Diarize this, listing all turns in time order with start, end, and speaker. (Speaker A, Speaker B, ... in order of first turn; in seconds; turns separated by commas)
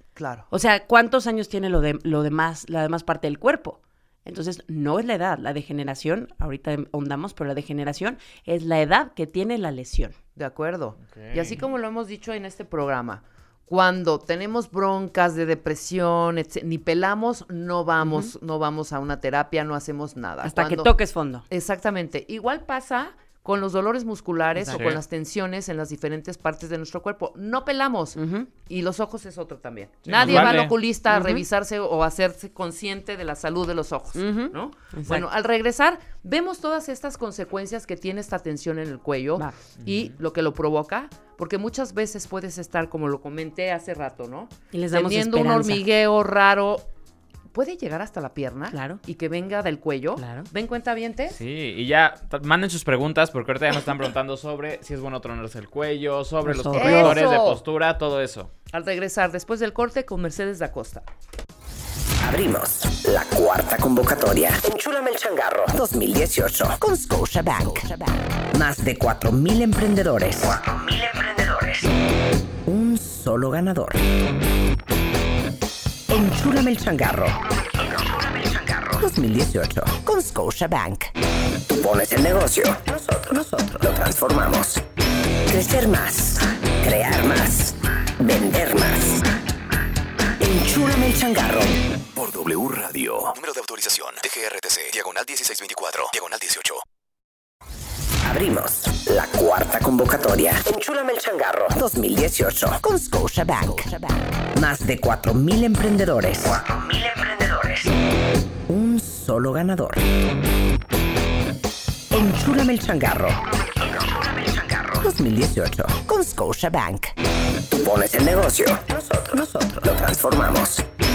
Speaker A: 0.2-0.5, Speaker B: 0.5-10.2, Speaker A: 10.4-20.9, Speaker C: 11.1-11.6, Speaker B: 18.0-18.3, Speaker B: 20.4-21.5, Speaker A: 21.5-46.9, Speaker B: 24.6-24.9, Speaker C: 24.7-25.0, Speaker B: 28.2-28.5, Speaker C: 30.1-30.8, Speaker B: 30.2-31.4, Speaker B: 34.1-35.2, Speaker C: 39.8-40.1, Speaker B: 44.7-45.8, Speaker A: 47.5-51.4, Speaker B: 48.7-49.0, Speaker B: 50.2-50.5, Speaker C: 51.3-58.5, Speaker B: 56.4-57.2, Speaker A: 56.7-57.6, Speaker A: 58.7-61.1, Speaker D: 62.2-71.9, Speaker D: 72.7-74.0, Speaker D: 76.1-81.1, Speaker D: 81.7-84.8, Speaker D: 85.5-89.2, Speaker D: 90.4-91.8, Speaker E: 92.1-96.8, Speaker D: 98.2-107.9, Speaker D: 108.7-110.0, Speaker D: 112.1-117.1, Speaker D: 117.7-120.8